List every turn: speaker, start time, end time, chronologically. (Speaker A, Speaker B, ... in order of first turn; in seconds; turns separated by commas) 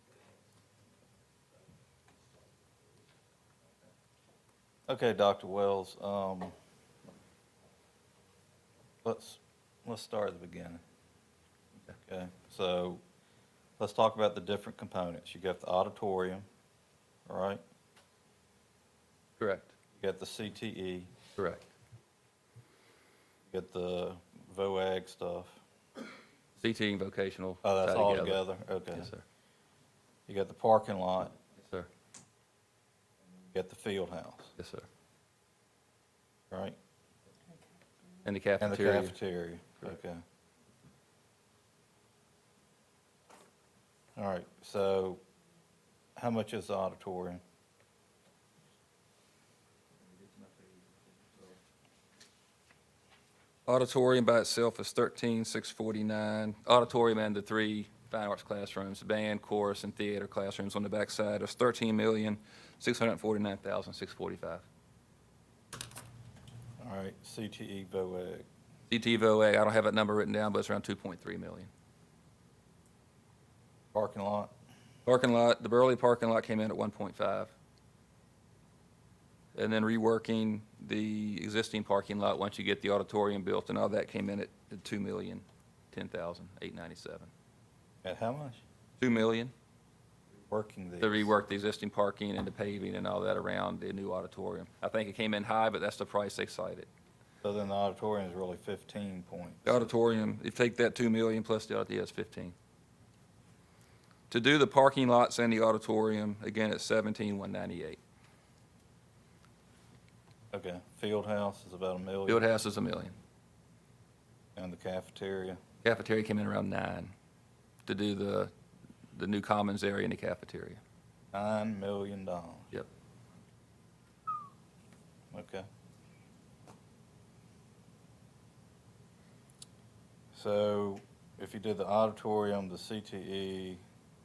Speaker A: 4.9-6.5, Speaker A: 9.0-10.8, Speaker A: 12.1-13.0, Speaker A: 13.8-16.4, Speaker A: 17.3-17.6, Speaker B: 19.4-19.7, Speaker A: 20.0-21.1, Speaker B: 21.4-21.6, Speaker A: 23.5-25.6, Speaker B: 26.6-29.2, Speaker A: 27.6-29.1, Speaker A: 30.3-31.3, Speaker A: 33.5-34.5, Speaker B: 34.6-34.9, Speaker A: 36.5-36.8, Speaker B: 38.2-39.1, Speaker A: 38.6-40.2, Speaker A: 44.1-45.2, Speaker A: 46.1-47.4, Speaker B: 53.6-64.6, Speaker A: 66.8-68.4, Speaker B: 68.9-71.7, Speaker A: 73.9-74.5, Speaker B: 75.0-77.5, Speaker B: 79.5-87.3, Speaker A: 88.0-88.6, Speaker B: 89.0-89.5, Speaker A: 90.5-91.3, Speaker B: 91.0-96.9, Speaker A: 97.4-99.9, Speaker B: 99.6-102.5, Speaker B: 104.3-108.0, Speaker A: 110.5-112.4, Speaker B: 112.3-113.1, Speaker A: 114.5-115.6, Speaker B: 115.8-117.1, Speaker B: 117.8-118.5, Speaker B: 119.1-120.8, Speaker A: 121.3-122.7, Speaker A: 125.3-125.7, Speaker A: 130.3-133.8